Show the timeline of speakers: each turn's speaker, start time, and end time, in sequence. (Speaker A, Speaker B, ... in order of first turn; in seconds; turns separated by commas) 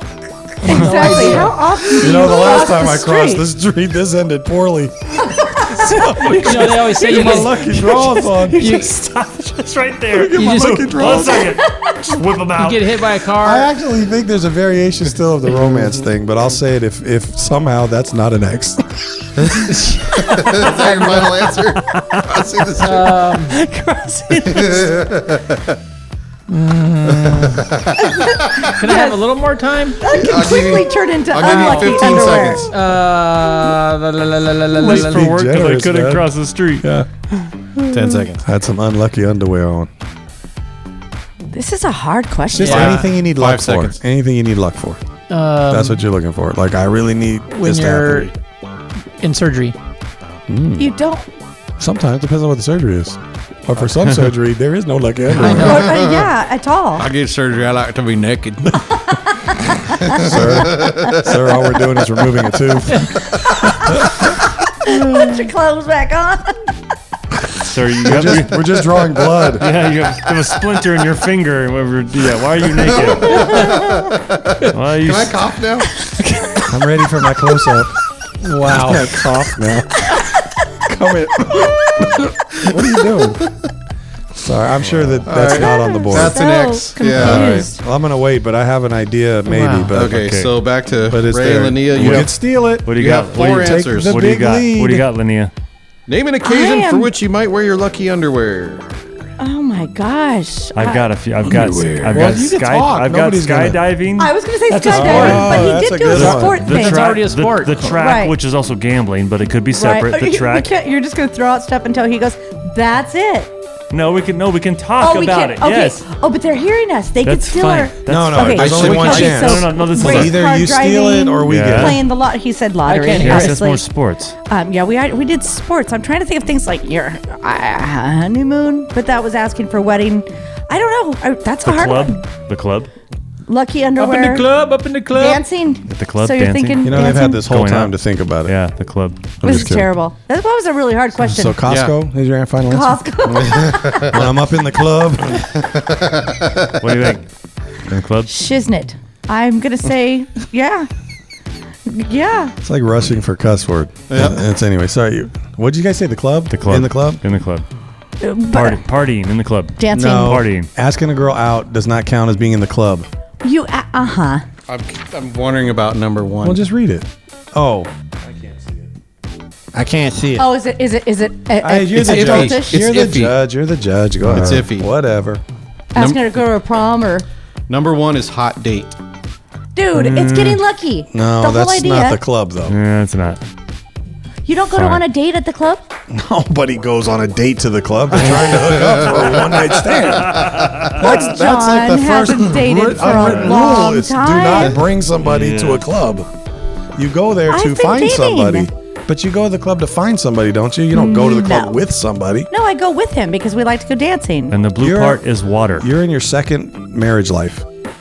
Speaker A: 0.6-1.6, Speaker B: 0.6-3.5, Speaker C: 1.9-8.8, Speaker A: 6.2-9.0, Speaker D: 7.2-12.9, Speaker C: 10.1-11.5, Speaker A: 10.3-11.3, Speaker B: 11.6-11.9, Speaker A: 12.6-13.7, Speaker C: 13.4-19.5, Speaker E: 19.4-23.2, Speaker A: 19.7-20.0, Speaker D: 20.3-20.7, Speaker D: 21.8-22.4, Speaker A: 22.8-23.6, Speaker D: 23.4-25.1, Speaker E: 24.5-25.6, Speaker A: 26.5-27.7, Speaker E: 27.2-28.1, Speaker B: 28.0-29.2, Speaker A: 28.7-30.0, Speaker B: 30.0-32.7, Speaker E: 30.1-32.7, Speaker A: 31.5-35.3, Speaker D: 34.8-37.5, Speaker C: 34.8-36.3, Speaker C: 36.8-37.1, Speaker E: 37.9-38.4, Speaker C: 38.4-39.9, Speaker B: 41.5-43.0, Speaker C: 42.5-45.0, Speaker A: 42.6-43.1, Speaker E: 42.7-44.0, Speaker A: 45.3-46.0, Speaker C: 45.7-48.3, Speaker A: 47.5-48.3, Speaker A: 49.2-49.8, Speaker C: 50.5-50.9, Speaker B: 50.8-51.3, Speaker C: 51.8-56.0, Speaker E: 53.8-54.3, Speaker E: 55.3-56.3, Speaker A: 55.4-55.7, Speaker B: 55.5-57.1, Speaker E: 57.0-59.2, Speaker B: 59.1-60.2, Speaker E: 60.0-61.4, Speaker C: 60.0-64.2, Speaker B: 63.6-64.1, Speaker B: 64.8-66.7, Speaker D: 67.6-68.6, Speaker C: 68.0-69.7, Speaker D: 69.5-73.8, Speaker E: 72.9-76.0, Speaker D: 74.7-75.4, Speaker D: 76.2-76.6, Speaker C: 76.7-78.0, Speaker A: 78.4-79.3, Speaker C: 78.7-80.2, Speaker C: 80.8-83.5, Speaker C: 84.4-86.5, Speaker E: 84.9-87.7, Speaker B: 85.6-87.8, Speaker C: 87.1-90.2, Speaker A: 89.5-90.0, Speaker E: 89.9-92.3, Speaker D: 90.0-90.5, Speaker C: 91.1-95.1, Speaker D: 91.9-92.3, Speaker D: 92.8-95.5, Speaker E: 92.9-94.3, Speaker E: 96.1-99.1, Speaker B: 96.4-97.1, Speaker B: 99.4-101.1, Speaker D: 100.8-104.3, Speaker C: 101.4-103.8, Speaker B: 104.2-107.2, Speaker A: 104.7-105.8, Speaker C: 104.9-106.6, Speaker D: 105.1-110.7, Speaker A: 106.6-107.9, Speaker B: 107.9-108.3, Speaker B: 109.7-113.5, Speaker D: 113.9-116.0, Speaker B: 115.0-123.9, Speaker D: 117.2-120.4, Speaker C: 118.1-122.0, Speaker E: 118.5-119.6, Speaker D: 121.5-122.0, Speaker A: 122.8-123.7, Speaker D: 123.2-124.4, Speaker B: 124.5-132.2, Speaker D: 131.6-132.9, Speaker B: 133.5-134.5, Speaker A: 134.0-135.4, Speaker B: 135.2-137.4, Speaker D: 135.9-139.7, Speaker C: 136.8-138.5, Speaker C: 139.4-139.9, Speaker B: 139.4-141.6, Speaker C: 141.3-143.0, Speaker E: 141.7-141.9, Speaker B: 142.7-144.1, Speaker E: 143.3-144.2, Speaker C: 144.0-145.4, Speaker E: 145.6-146.7, Speaker D: 146.8-147.3, Speaker D: 147.8-148.3, Speaker B: 148.3-150.9, Speaker B: 151.9-152.6, Speaker C: 152.6-157.2, Speaker E: 154.1-154.4, Speaker D: 156.5-157.7, Speaker B: 158.2-158.8, Speaker D: 158.5-160.7, Speaker B: 159.8-160.4, Speaker C: 159.9-163.1, Speaker B: 163.4-164.4, Speaker E: 164.7-166.6, Speaker C: 166.4-167.9, Speaker D: 168.3-168.8, Speaker C: 169.8-170.4, Speaker B: 170.3-172.8, Speaker C: 171.6-175.4, Speaker E: 171.9-173.3, Speaker E: 174.2-174.9, Speaker B: 175.9-177.3, Speaker E: 175.9-176.3, Speaker E: 177.7-178.9, Speaker B: 179.8-182.2, Speaker C: 180.0-180.5, Speaker C: 181.1-182.8, Speaker D: 182.7-183.4, Speaker B: 184.5-185.8, Speaker D: 184.8-185.0, Speaker C: 186.1-196.3, Speaker E: 188.8-189.3, Speaker D: 190.3-190.8, Speaker E: 190.4-190.9, Speaker B: 191.0-194.8, Speaker D: 193.1-193.6, Speaker D: 195.2-195.8, Speaker C: 197.0-202.5, Speaker B: 197.5-198.7, Speaker B: 200.9-201.8, Speaker B: 202.5-204.6, Speaker D: 204.5-205.9, Speaker C: 204.8-205.2, Speaker C: 205.8-207.7